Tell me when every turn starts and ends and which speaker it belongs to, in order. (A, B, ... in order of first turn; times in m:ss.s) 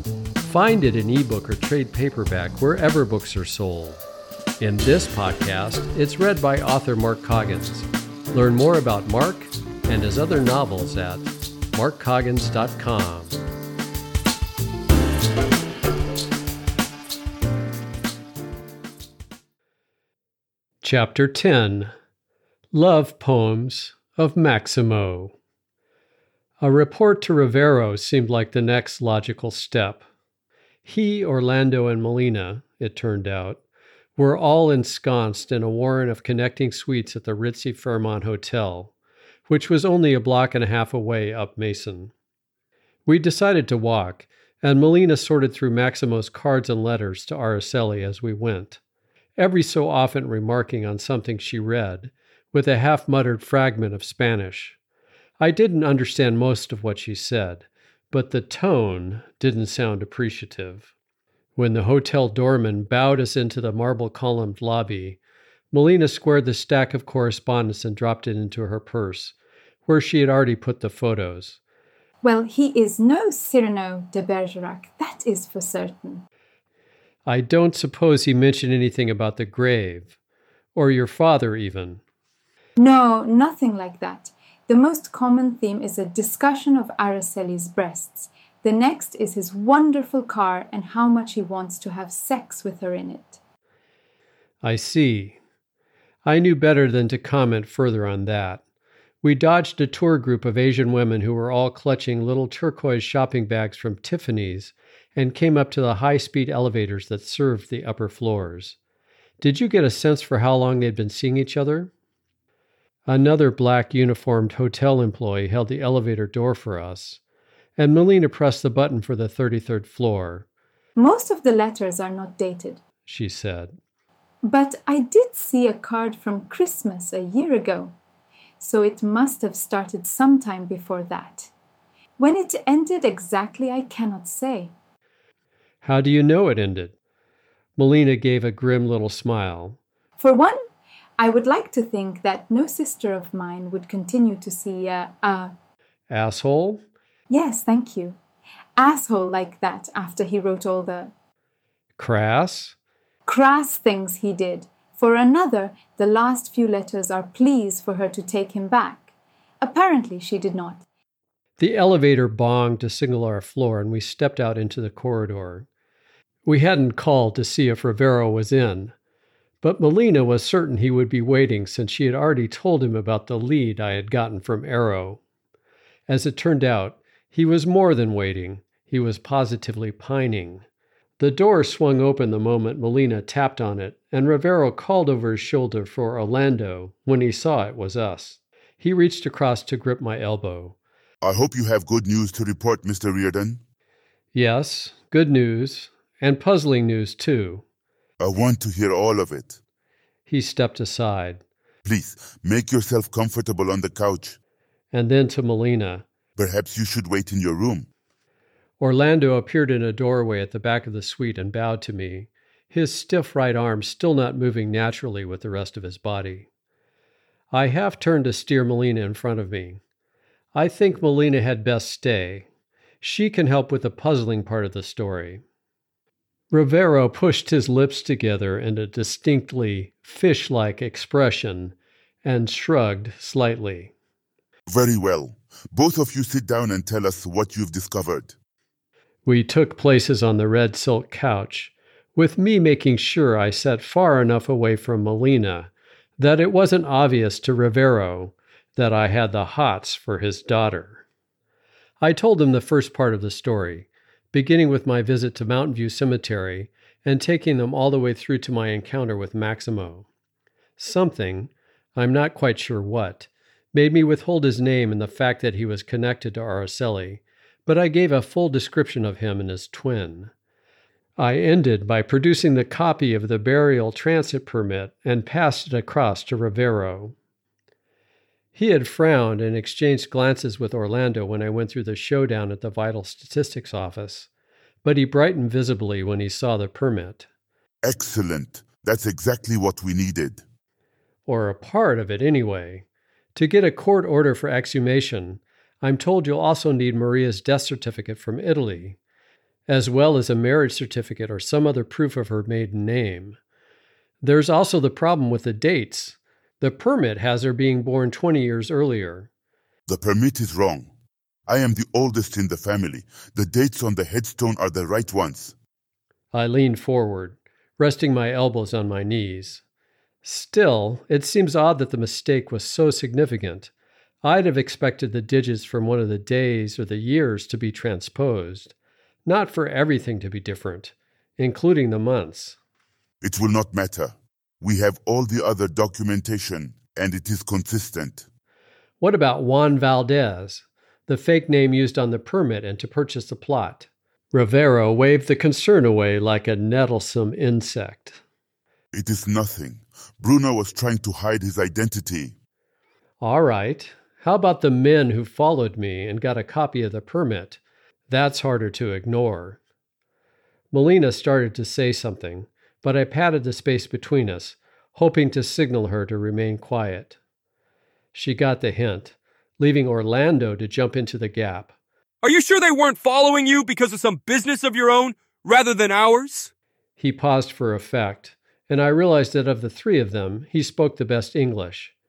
0:00.4-0:04.1 A
0:04.6-0:13.4 A
0:20.8-0:21.9 A
0:22.7-0:25.4 A
0:26.6-0:30.0 A
0:30.8-0:33.6 A
0:34.2-0:38.9 A
0:39.5-0:42.1 A
0:43.1-0:48.8 A
0:49.4-0:54.8 A
0:55.4-1:00.9 A
1:01.6-1:05.2 A
1:05.7-1:09.4 A
1:09.9-1:11.6 A
1:12.2-1:16.2 B
1:17.3-1:20.2 A
1:20.8-1:22.0 A
1:22.8-1:33.4 B
1:34.6-1:35.4 A
1:36.2-1:38.6 A
1:39.2-1:48.8 A
1:49.4-1:51.9 A
1:53.1-1:57.2 A
1:57.8-2:00.5 A
2:01.0-2:02.8 B
2:03.1-2:03.8 A
2:04.4-2:08.0 B
2:08.6-2:11.5 B
2:12.2-2:14.7 B
2:15.8-2:17.0 A
2:17.8-2:19.8 A
2:20.2-2:20.6 B
2:21.2-2:25.5 B
2:26.1-2:26.8 A
2:27.3-2:28.2 B
2:28.8-2:31.1 B
2:32.0-2:32.8 A
2:33.3-2:39.1 B
2:39.6-2:40.8 B
2:41.6-2:45.7 A
2:46.5-2:48.9 A
2:49.6-2:55.2 A
2:56.1-3:00.6 A
3:01.2-3:10.8 A
3:11.2-3:13.6 C
3:14.3-3:17.6 A
3:18.2-3:19.6 C
3:20.3-3:21.4 A
3:21.8-3:24.4 C
3:24.9-3:26.1 A
3:26.4-3:27.9 C
3:28.8-3:36.5 A
3:37.5-3:39.8 A
3:40.5-3:42.5 A
3:43.0-3:45.4 A
3:46.5-3:53.9 A
3:54.7-3:58.4 C
3:59.3-4:11.0 A
4:12.0-4:20.1 A
4:20.8-4:30.3 A
4:31.2-4:37.2 A
4:38.6-4:44.3 A
4:44.8-4:47.3 A
4:47.8-4:50.4 C
4:51.3-4:59.0 A
4:59.7-5:03.4 A
5:04.2-5:09.3 A
5:09.9-5:10.9 C
5:11.5-5:15.6 C
5:16.3-5:19.6 A
5:20.2-5:23.7 A
5:24.2-5:28.8 A
5:29.3-5:32.6 A
5:33.2-5:38.3 C
5:39.0-5:48.2 A
5:48.9-5:52.4 C
5:53.2-5:59.6 A
6:00.7-6:07.2 A
6:08.1-6:11.7 A
6:12.2-6:16.5 D
6:17.0-6:21.9 A